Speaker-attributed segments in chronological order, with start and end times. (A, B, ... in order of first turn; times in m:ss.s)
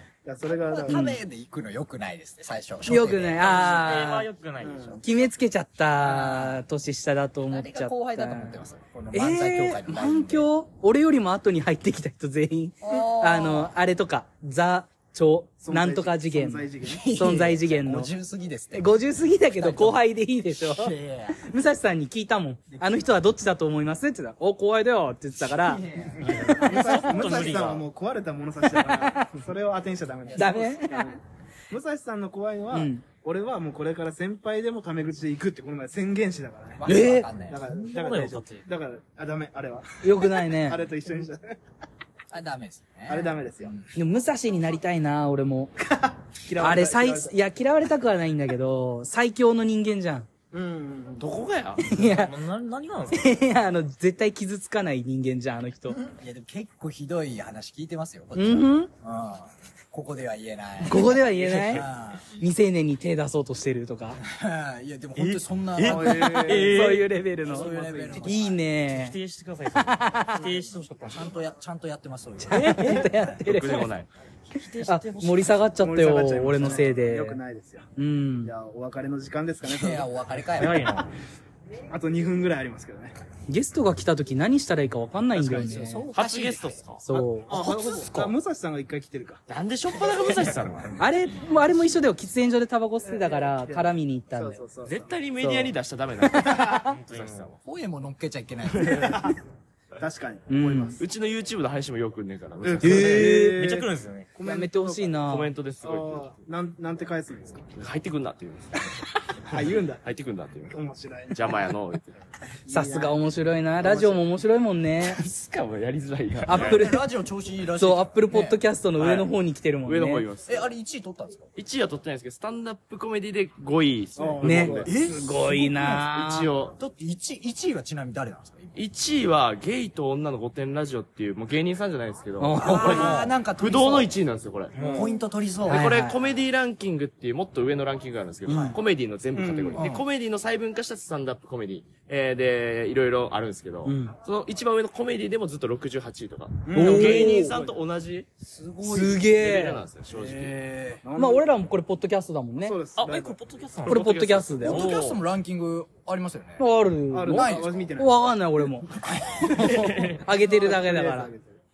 0:00.2-0:01.2 A
0:00.6-0:04.0 B
0:00.9-0:01.2 C
0:02.9-0:04.3 C
0:03.4-0:05.0 D
0:04.6-0:05.0 A
0:05.0-0:08.6 C
0:06.0-0:06.6 B
0:07.5-0:10.5 B
0:09.1-0:18.1 C
0:12.8-0:13.7 B
0:15.6-0:17.4 A
0:16.9-0:19.0 B
0:18.7-0:25.8 C
0:19.6-0:20.0 B
0:20.6-0:21.4 B
0:25.4-0:27.2 B
0:26.2-0:27.8 D
0:26.3-0:36.9 A
0:28.7-0:29.3 C
0:30.4-0:31.2 C
0:32.7-0:33.0 C
0:36.8-0:37.6 B
0:36.9-0:37.3 C
0:37.5-0:41.6 A
0:37.7-0:38.6 D
0:40.0-0:40.8 C
0:42.3-0:43.9 B
0:43.1-0:43.8 A
0:44.0-0:45.8 C
0:45.9-0:47.4 A
0:46.6-0:50.3 C
0:50.5-0:51.2 A
0:51.2-0:51.9 E
0:51.8-0:52.4 C
0:52.0-0:53.4 D
0:53.1-0:56.0 C
0:55.9-1:02.3 B
0:58.4-0:58.9 C
1:00.8-1:04.2 C
1:04.2-1:08.7 B
1:05.2-1:07.1 E
1:05.8-1:06.9 A
1:06.1-1:09.2 C
1:07.6-1:08.2 A
1:08.8-1:11.4 D
1:09.7-1:10.4 C
1:10.4-1:13.4 B
1:12.4-1:13.9 C
1:13.5-1:14.1 E
1:14.6-1:15.5 D
1:14.7-1:15.5 E
1:14.8-1:17.4 C
1:15.8-1:17.9 A
1:18.0-1:18.5 C
1:18.4-1:20.1 A
1:19.6-1:21.0 B
1:20.5-1:21.1 D
1:21.9-1:23.2 A
1:23.5-1:26.1 C
1:25.4-1:26.8 B
1:26.1-1:28.3 E
1:27.0-1:27.6 C
1:27.1-1:29.4 A
1:29.5-1:31.0 E
1:31.0-1:34.6 C
1:33.4-1:35.1 A
1:34.8-1:36.8 E
1:35.4-1:35.7 C
1:36.4-1:36.9 A
1:36.8-1:37.6 D
1:37.6-1:39.2 B
1:38.7-1:39.1 E
1:39.0-1:39.4 A
1:40.0-1:41.0 A
1:40.5-1:41.0 C
1:41.0-1:43.3 E
1:42.6-1:45.2 A
1:42.8-1:43.6 C
1:43.0-1:44.3 D
1:44.4-1:45.5 C
1:45.3-1:46.4 E
1:45.8-1:47.7 A
1:47.8-1:50.8 E
1:49.5-1:50.0 A
1:50.7-1:51.6 A
1:51.3-1:52.2 E
1:52.7-1:53.1 A
1:52.7-1:55.2 C
1:53.8-1:54.2 A
1:55.0-1:56.8 E
1:56.5-1:57.1 C
1:56.5-1:58.6 B
1:57.8-2:00.3 C
1:59.0-1:59.3 E
1:59.9-2:00.7 E
2:00.5-2:01.5 B
2:01.6-2:04.9 E
2:04.2-2:05.4 A
2:04.4-2:06.5 C
2:04.9-2:06.1 B
2:06.1-2:06.8 E
2:06.8-2:08.8 B
2:08.8-2:15.1 E
2:12.4-2:13.1 C
2:12.6-2:14.2 B
2:14.8-2:15.2 D
2:14.8-2:15.9 B
2:14.8-2:15.1 A
2:15.6-2:28.3 E
2:15.7-2:16.2 C
2:18.5-2:18.8 B
2:19.3-2:19.9 A
2:19.8-2:20.0 B
2:23.9-2:24.1 A
2:26.6-2:27.8 A
2:26.7-2:27.6 C
2:28.5-2:29.3 B
2:28.9-2:29.8 C
2:29.1-2:30.6 E
2:30.2-2:31.0 B
2:31.0-2:31.5 A
2:31.2-2:32.8 C
2:32.6-2:33.4 A
2:33.0-2:35.2 D
2:33.8-2:34.9 C
2:33.8-2:35.0 E
2:34.6-2:36.6 B
2:36.6-2:38.9 C
2:37.1-2:38.2 A
2:37.3-2:37.8 B
2:38.9-2:40.2 B
2:39.6-2:41.3 C
2:40.2-2:41.6 A